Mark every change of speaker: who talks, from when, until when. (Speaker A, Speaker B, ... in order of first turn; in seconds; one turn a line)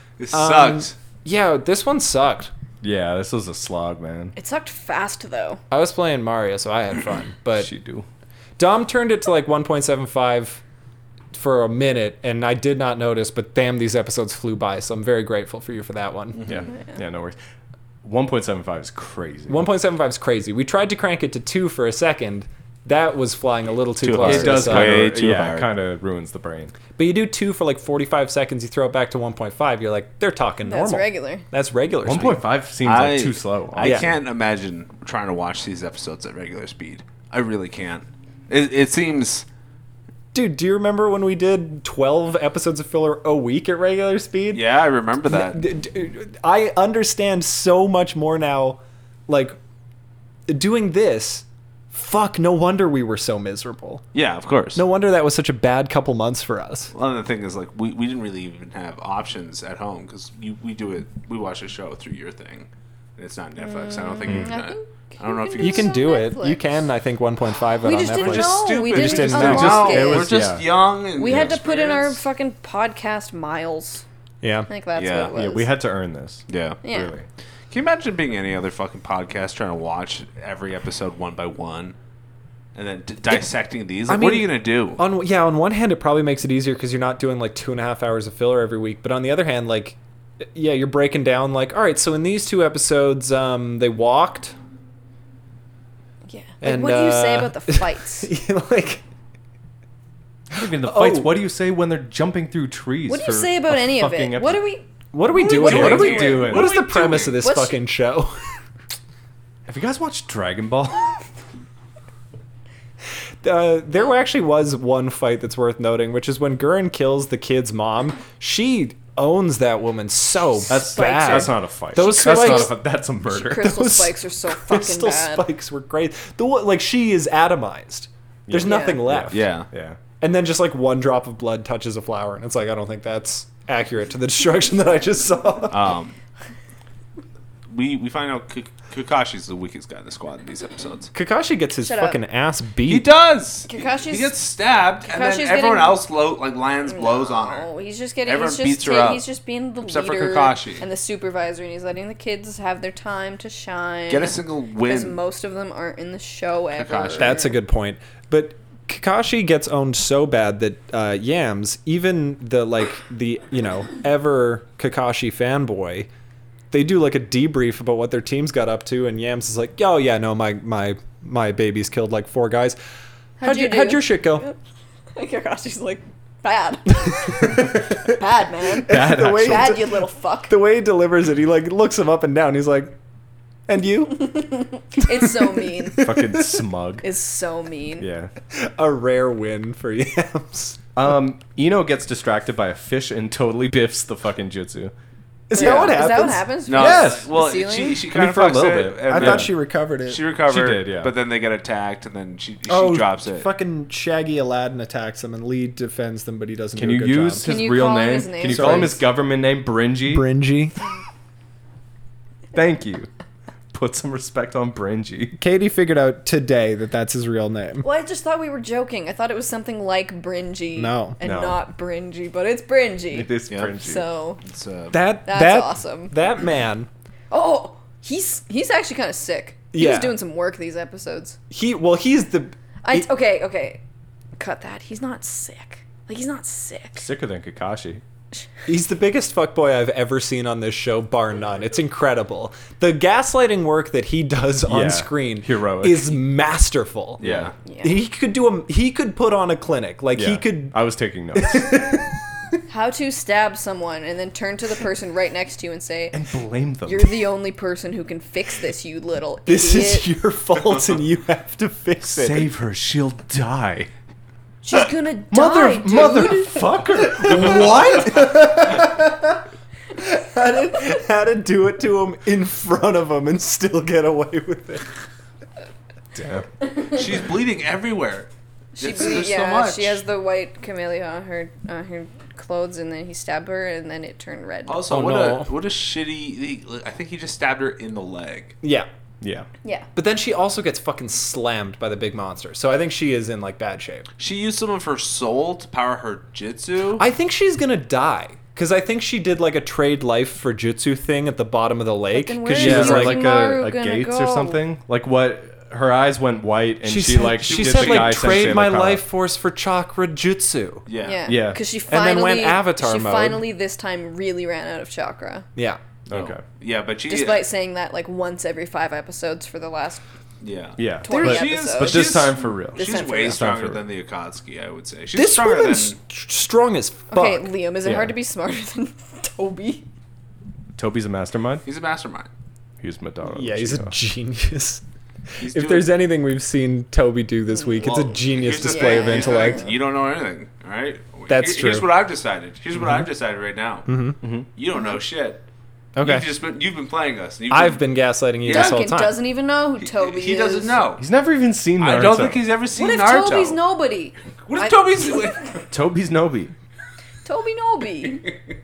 Speaker A: 0.2-0.9
Speaker B: 0.3-2.5
Speaker C: 2.8-4.3
Speaker D: 4.3-5.6
Speaker B: 5.7-7.7
Speaker C: 7.5-8.1
Speaker B: 8.6-10.6
Speaker B: 11.3-16.4
Speaker A: 16.3-16.7
Speaker C: 16.4-17.4
Speaker C: 18.0-19.7
Speaker B: 19.5-25.1
Speaker A: 24.0-25.7
Speaker C: 24.2-26.7
Speaker B: 26.9-32.4
Speaker D: 30.6-31.4
Speaker C: 32.0-34.1
Speaker A: 32.8-39.5
Speaker B: 33.8-34.1
Speaker B: 40.3-44.7
Speaker A: 44.5-45.7
Speaker B: 45.2-49.6
Speaker B: 50.5-54.0
Speaker A: 54.1-54.8
Speaker B: 54.7-56.9
Speaker A: 56.9-65.9
Speaker D: 63.6-66.6
Speaker C: 64.2-64.5
Speaker B: 65.6-70.1
Speaker D: 67.8-70.3
Speaker A: 68.1-72.2
Speaker C: 69.4-70.7
Speaker D: 71.2-74.0
Speaker C: 71.2-71.6
Speaker B: 74.4-74.7
Speaker D: 74.7-75.7
Speaker A: 75.0-75.3
Speaker C: 75.3-77.2
Speaker A: 76.5-76.8
Speaker D: 76.8-77.1
Speaker A: 77.7-82.0
Speaker A: 82.7-85.0
Speaker B: 84.1-90.0
Speaker B: 90.5-94.5
Speaker D: 96.3-98.3
Speaker B: 96.6-99.0
Speaker C: 100.5-104.7
Speaker B: 100.8-101.4
Speaker D: 103.1-104.8
Speaker B: 105.1-108.3
Speaker A: 105.3-107.4
Speaker C: 105.4-106.8
Speaker D: 105.4-106.0
Speaker D: 107.4-107.7
Speaker C: 109.7-111.2
Speaker B: 113.4-122.7
Speaker C: 120.7-123.8
Speaker D: 120.9-122.7
Speaker D: 123.3-125.5
Speaker B: 123.6-129.5
Speaker C: 128.5-130.0
Speaker D: 128.6-129.0
Speaker A: 129.3-129.7
Speaker B: 130.2-135.8
Speaker A: 135.7-136.1
Speaker A: 137.7-141.1
Speaker B: 141.1-143.1
Speaker D: 141.8-142.2
Speaker A: 142.8-147.7
Speaker D: 143.7-144.3
Speaker D: 145.0-146.0
Speaker D: 146.8-157.5
Speaker A: 148.2-149.2
Speaker A: 149.8-150.8
Speaker A: 154.1-155.2
Speaker A: 156.7-157.5
Speaker B: 157.2-166.1
Speaker B: 166.7-172.8
Speaker D: 173.4-174.6
Speaker B: 173.4-174.4
Speaker D: 175.1-180.5
Speaker B: 177.2-178.1
Speaker C: 178.8-179.8
Speaker B: 178.8-183.0
Speaker B: 183.7-184.5
Speaker D: 184.3-186.1
Speaker B: 185.1-186.6
Speaker C: 186.0-187.1
Speaker D: 187.0-188.1
Speaker C: 188.0-188.3
Speaker B: 188.5-190.8
Speaker C: 190.9-194.9
Speaker B: 195.5-197.1
Speaker D: 195.5-198.0
Speaker C: 195.6-195.9
Speaker A: 196.7-199.5
Speaker C: 196.8-197.3
Speaker C: 198.1-199.5
Speaker B: 199.1-200.2
Speaker A: 200.1-203.5
Speaker C: 200.4-201.1
Speaker B: 202.7-207.5
Speaker C: 206.8-210.3
Speaker D: 207.4-209.0
Speaker B: 208.5-209.0
Speaker B: 210.1-210.8
Speaker C: 212.5-213.1
Speaker C: 213.7-215.4
Speaker B: 215.4-217.8
Speaker D: 217.8-224.4
Speaker B: 220.8-221.2
Speaker C: 221.2-221.6
Speaker C: 223.1-224.0
Speaker A: 223.5-223.8
Speaker A: 224.4-225.0
Speaker B: 224.9-226.9
Speaker D: 225.2-226.2
Speaker D: 227.3-231.4
Speaker B: 229.7-230.2
Speaker B: 231.5-233.1
Speaker D: 232.8-233.8
Speaker D: 234.4-237.1
Speaker C: 236.9-238.0
Speaker B: 238.7-247.2
Speaker C: 244.7-246.2
Speaker A: 247.2-247.5
Speaker C: 247.2-247.5
Speaker D: 247.6-247.9
Speaker B: 247.8-250.8
Speaker C: 250.1-251.8
Speaker B: 251.4-252.2
Speaker D: 252.7-256.2
Speaker C: 256.1-257.2
Speaker D: 256.8-260.1
Speaker B: 259.4-262.5
Speaker C: 262.1-263.9
Speaker D: 264.6-267.2
Speaker C: 265.3-268.4
Speaker B: 267.0-269.4
Speaker B: 270.0-274.9
Speaker C: 276.1-276.5
Speaker A: 276.9-280.0
Speaker D: 278.8-284.8
Speaker A: 284.7-288.6
Speaker B: 284.9-285.5
Speaker B: 288.6-288.9
Speaker C: 289.2-289.5
Speaker B: 289.9-294.1
Speaker A: 294.2-297.1
Speaker B: 297.0-303.2
Speaker D: 302.1-304.6
Speaker C: 302.5-309.0
Speaker B: 306.8-310.9
Speaker A: 307.4-308.4
Speaker A: 310.9-311.2
Speaker D: 311.0-315.5
Speaker C: 311.2-311.6
Speaker B: 311.9-313.4
Speaker B: 315.6-315.8
Speaker C: 316.1-316.4
Speaker A: 316.1-317.5
Speaker D: 317.1-320.0
Speaker A: 320.4-326.0
Speaker C: 320.8-323.8
Speaker D: 321.0-323.4
Speaker B: 325.1-327.5
Speaker D: 327.1-329.8
Speaker C: 327.8-328.1
Speaker C: 330.8-331.6
Speaker A: 331.6-332.3
Speaker C: 332.8-333.9
Speaker B: 333.3-334.8
Speaker B: 335.4-339.7
Speaker A: 335.4-335.9
Speaker D: 337.5-338.0
Speaker A: 337.8-343.9
Speaker D: 338.7-339.7
Speaker B: 341.3-341.9
Speaker B: 343.9-344.2
Speaker A: 344.5-345.4
Speaker B: 346.0-346.3
Speaker A: 346.0-347.8
Speaker B: 347.5-349.2
Speaker A: 348.4-348.8
Speaker D: 348.4-350.8
Speaker A: 349.8-351.0
Speaker C: 351.0-352.4
Speaker A: 351.8-353.6
Speaker D: 352.7-355.4
Speaker A: 354.4-355.6
Speaker C: 355.7-356.5
Speaker D: 357.2-358.3